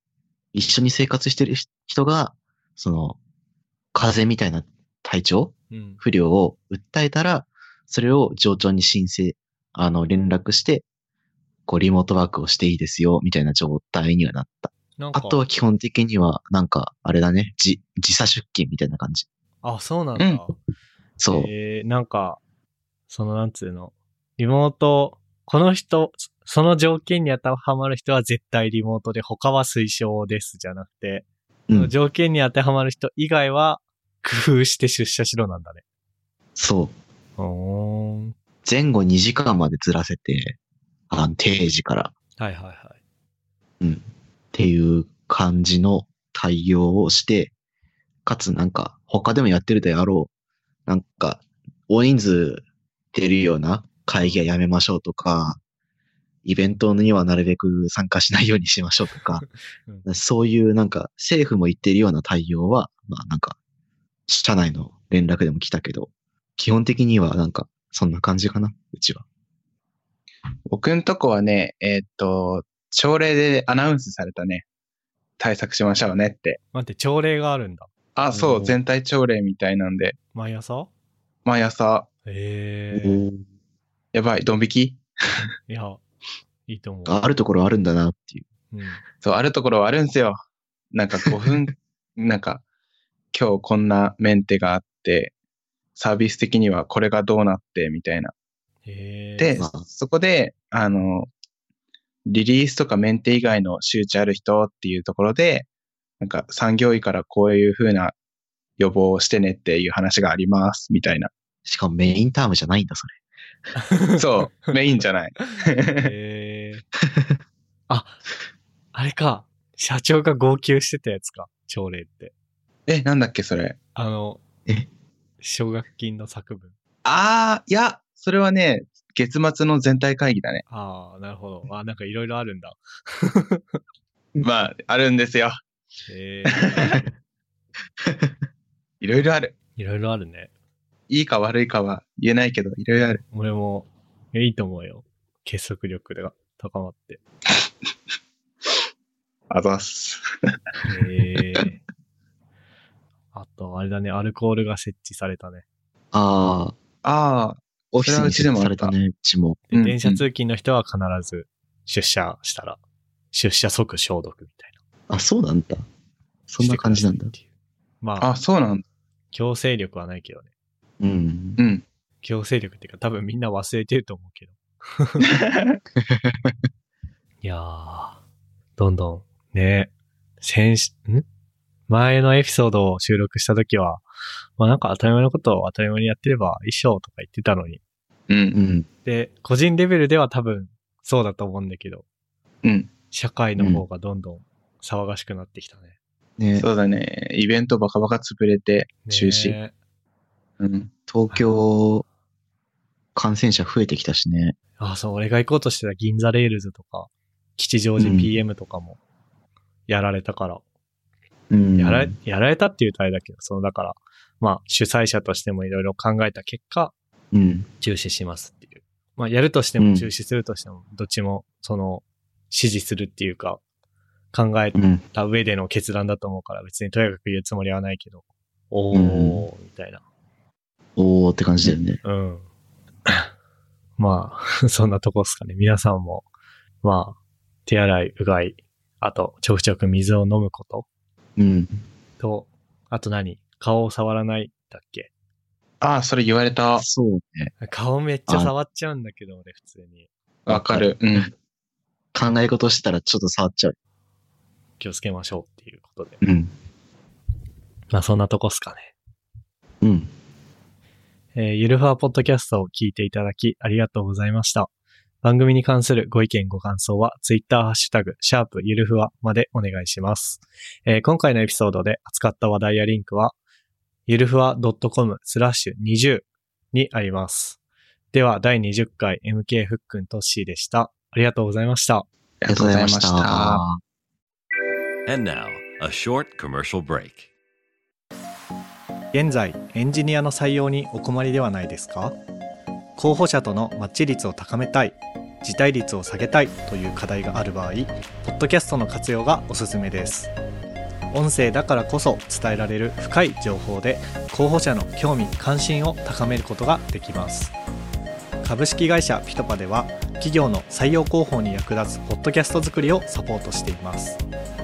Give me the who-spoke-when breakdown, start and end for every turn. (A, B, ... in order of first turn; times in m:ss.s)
0:00.5-0:03.2 A
0:03.9-0:10.8 A
0:05.7-0:06.0 B
0:11.7-0:19.3 A
0:15.0-0:15.4 B
0:19.6-0:20.5 B
0:20.2-0:20.4 C
0:21.2-0:21.5 A
0:21.3-0:22.4 B
0:23.1-0:35.8 B
0:36.6-0:36.9 A
0:37.4-0:38.4 B
0:38.6-0:40.6 A
0:41.1-0:42.1 A
0:42.4-0:43.0 B
0:43.8-0:47.5 A
0:48.2-0:50.3 A
0:50.9-0:55.6 A
0:56.4-0:59.4 A
0:59.4-1:00.1 B
1:00.0-1:03.6 A
1:04.3-1:09.2 A
1:10.7-1:14.7 C
1:15.4-1:16.6 C
1:16.7-1:17.9 B
1:18.2-1:20.2 C
1:18.3-1:18.8 A
1:20.3-1:20.9 B
1:21.5-1:22.1 C
1:22.2-1:23.2 B
1:22.9-1:23.4 A
1:24.1-1:25.0 C
1:25.7-1:26.0 B
1:26.7-1:27.2 B
1:27.1-1:28.5 A
1:28.7-1:29.0 B
1:29.2-1:30.4 C
1:30.9-1:32.6 C
1:33.3-1:35.3 C
1:36.0-1:38.3 C
1:38.9-1:39.6 B
1:39.4-1:41.3 C
1:39.6-1:39.8 A
1:42.3-1:45.7 C
1:46.2-1:48.2 C
1:48.8-1:51.3 C
1:51.7-1:53.2 A
1:53.8-1:54.7 B
1:54.2-1:56.1 C
1:55.5-1:56.8 B
1:57.0-1:57.4 A
1:57.9-1:58.2 B
1:58.9-2:02.3 B
2:02.9-2:03.8 C
2:04.0-2:04.4 B
2:05.4-2:06.7 B
2:07.0-2:10.6 C
2:10.7-2:13.8 B
2:14.4-2:15.6 C
2:16.1-2:17.0 B
2:16.5-2:17.0 C
2:18.0-2:18.4 A
2:19.0-2:19.5 C
2:19.8-2:20.5 B
2:21.1-2:23.2 C
2:23.3-2:27.2 B
2:29.5-2:30.2 C
2:30.9-2:31.8 B
2:33.3-2:35.6 B
2:36.1-2:36.8 A
2:37.0-2:38.9 C
2:37.9-2:39.6 A
2:39.7-2:42.8 B
2:39.7-2:40.2 C
2:43.3-2:44.8 B
2:45.1-2:45.8 A
2:46.5-2:47.3 A
2:46.6-2:47.4 B
2:48.0-2:48.3 B
2:48.2-2:48.8 C
2:49.3-2:50.5 B
2:51.0-2:51.6 A
2:51.6-2:51.8 C
2:52.2-2:55.2 B
2:55.4-2:55.8 C
2:56.0-2:56.4 A
2:57.4-2:58.2 B
2:58.8-3:01.2 B
3:01.9-3:04.0 B
3:04.6-3:07.8 B
3:08.3-3:08.6 C
3:08.5-3:08.9 A
3:09.0-3:12.0 B
3:12.6-3:12.9 C
3:13.1-3:15.9 B
3:13.6-3:13.8 A
3:16.4-3:16.7 A
3:16.6-3:19.6 C
3:19.1-3:19.7 B
3:20.6-3:20.9 C
3:21.1-3:22.0 A
3:23.2-3:24.6 A
3:24.8-3:29.0 B
3:28.0-3:28.3 A
3:29.9-3:30.6 B
3:31.5-3:32.2 A
3:31.8-3:36.9 B
3:37.3-3:37.7 A
3:37.8-3:43.6 B
3:39.8-3:40.1 A
3:44.3-3:50.0 B
3:44.8-3:45.0 A
3:48.9-3:49.4 A
3:51.0-3:52.0 A
3:52.0-3:52.4 B
3:54.0-3:56.3 B
3:56.8-4:00.9 B
4:01.4-4:01.8 A
4:02.2-4:05.1 B
4:05.8-4:06.8 C
4:06.8-4:07.5 A
4:07.6-4:10.1 B
4:10.5-4:11.3 C
4:10.5-4:11.3 A
4:12.1-4:13.8 A
4:14.8-4:16.2 B
4:16.2-4:16.5 A
4:17.9-4:18.9 B
4:19.8-4:20.1 A
4:21.4-4:24.7 B
4:25.2-4:33.4 B
4:34.1-4:37.6 B
4:38.1-4:42.1 B
4:42.4-4:43.6 C
4:42.5-4:43.8 A
4:45.1-4:47.3 D
4:49.1-4:52.2 B
4:53.0-5:00.3 B
5:01.1-5:07.5 B
5:08.4-5:14.2 B